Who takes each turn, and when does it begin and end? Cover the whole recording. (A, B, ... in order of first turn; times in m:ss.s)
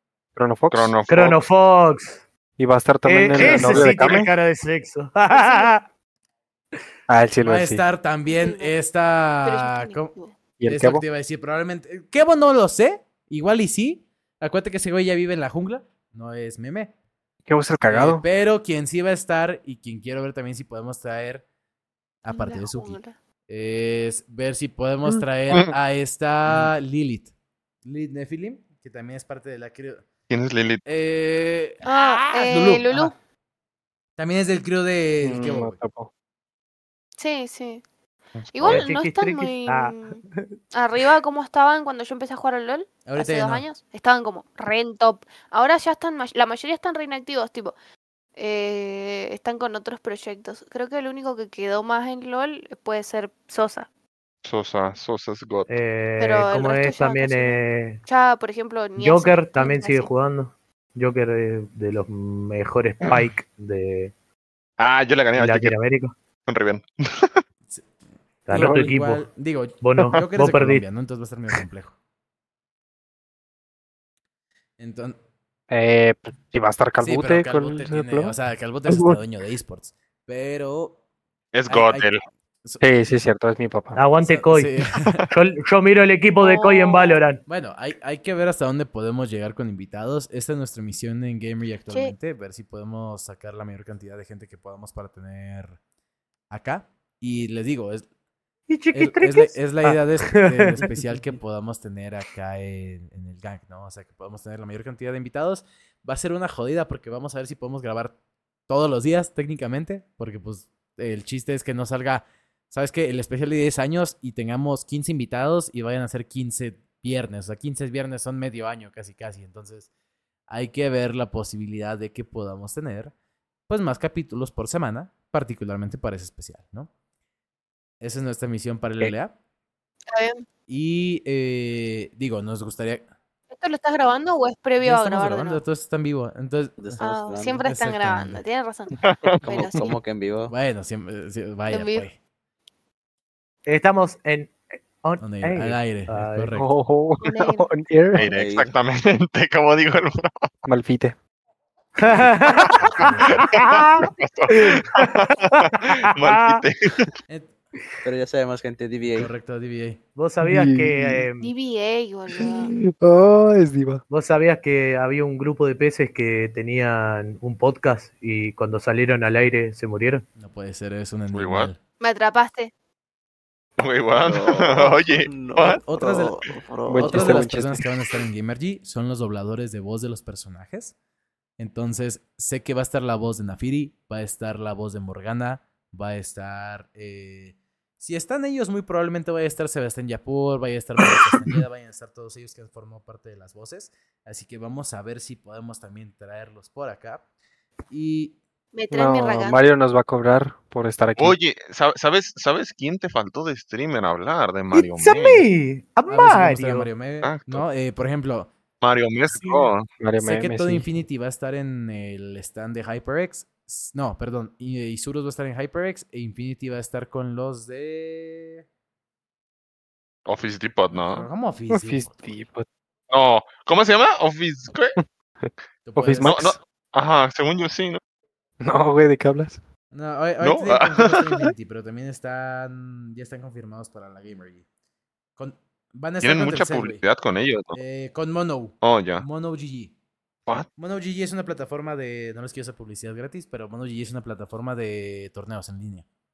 0:00.3-0:01.0 A
0:00.7-0:01.4 B
0:01.1-0:02.2 C
0:02.6-0:04.3 A
0:03.0-0:05.8 C
0:03.4-0:03.9 D
0:05.3-0:05.7 E
0:07.1-0:07.8 A
0:07.4-0:10.1 D
0:08.3-0:08.8 E
0:09.4-0:10.4 E
0:10.6-0:11.0 A
0:10.6-0:16.9 D
0:17.5-0:18.2 A
0:17.8-0:21.4 D
0:22.2-0:27.3 D
0:22.3-0:23.2 E
0:27.8-0:30.0 D
0:30.3-0:30.8 B
0:30.8-0:33.1 D
0:31.8-0:33.1 E
0:34.2-0:35.8 D
0:35.2-0:36.1 A
0:37.2-0:37.8 E
0:38.5-0:40.2 E
0:38.6-0:38.8 B
0:38.6-0:40.4 C
0:40.7-0:47.7 E
0:43.0-0:43.6 D
0:48.4-0:53.9 E
0:54.4-0:55.7 B
0:55.7-0:58.0 C
0:56.2-1:00.1 E
0:59.0-1:04.1 C
1:04.8-1:05.8 B
1:05.4-1:06.1 C
1:06.5-1:07.4 B
1:08.5-1:09.2 C
1:08.5-1:11.9 D
1:08.5-1:08.9 A
1:09.8-1:10.8 C
1:14.8-1:15.2 D
1:15.7-1:18.3 A
1:17.0-1:21.0 D
1:18.9-1:19.2 A
1:21.5-1:22.2 B
1:21.7-1:22.1 D
1:22.8-1:24.0 A
1:23.9-1:24.7 C
1:24.2-1:25.2 D
1:25.3-1:27.4 C
1:26.4-1:27.2 E
1:27.4-1:35.8 D
1:31.9-1:32.1 E
1:36.5-1:38.0 D
1:38.7-1:40.9 C
1:38.9-1:48.1 D
1:48.7-1:59.9 D
2:00.5-2:03.1 D
2:03.7-2:06.9 D
2:08.0-2:09.3 D
2:10.1-2:10.4 E
2:10.7-2:13.0 D
2:13.5-2:15.6 E
2:14.8-2:17.0 D
2:16.8-2:17.6 F
2:17.0-2:19.9 E
2:17.6-2:18.4 D
2:19.0-2:19.5 B
2:19.4-2:20.5 F
2:20.5-2:22.1 D
2:21.7-2:22.1 E
2:23.6-2:26.5 C
2:25.2-2:26.7 D
2:26.6-2:28.3 A
2:27.2-2:27.7 E
2:28.1-2:30.4 B
2:28.3-2:28.7 F
2:30.6-2:31.1 A
2:32.0-2:36.6 C
2:32.8-2:33.4 D
2:33.0-2:37.1 B
2:38.0-2:39.3 F
2:39.1-2:40.0 D
2:40.1-2:41.5 C
2:40.4-2:41.2 A
2:41.4-2:42.7 E
2:42.4-2:44.0 A
2:44.1-2:50.2 C
2:50.4-2:51.8 D
2:51.3-2:51.7 B
2:52.0-2:52.7 E
2:53.8-2:55.8 B
2:54.2-2:57.5 F
2:55.7-2:56.4 D
2:56.9-2:57.8 A
2:57.0-3:00.9 D
3:01.6-3:17.2 D
3:17.9-3:18.4 D
3:18.7-3:19.6 E
3:18.9-3:21.3 A
3:21.2-3:25.4 B
3:24.7-3:26.9 C
3:26.1-3:28.5 D
3:27.2-3:27.6 B
3:28.8-3:29.9 B
3:29.3-3:38.6 D
3:29.9-3:30.9 A
3:40.2-3:41.3 B
3:41.1-3:42.2 D
3:41.7-3:42.6 A
3:43.1-3:44.9 B
3:45.0-3:46.6 A
3:45.8-3:46.6 D
3:46.2-3:48.0 B
3:48.6-3:49.6 A
3:49.9-3:54.6 D
3:50.4-3:51.5 B
3:55.4-3:57.0 D
3:56.2-3:57.8 B
3:57.7-3:59.9 D
3:58.8-3:59.2 B
4:00.7-4:06.0 D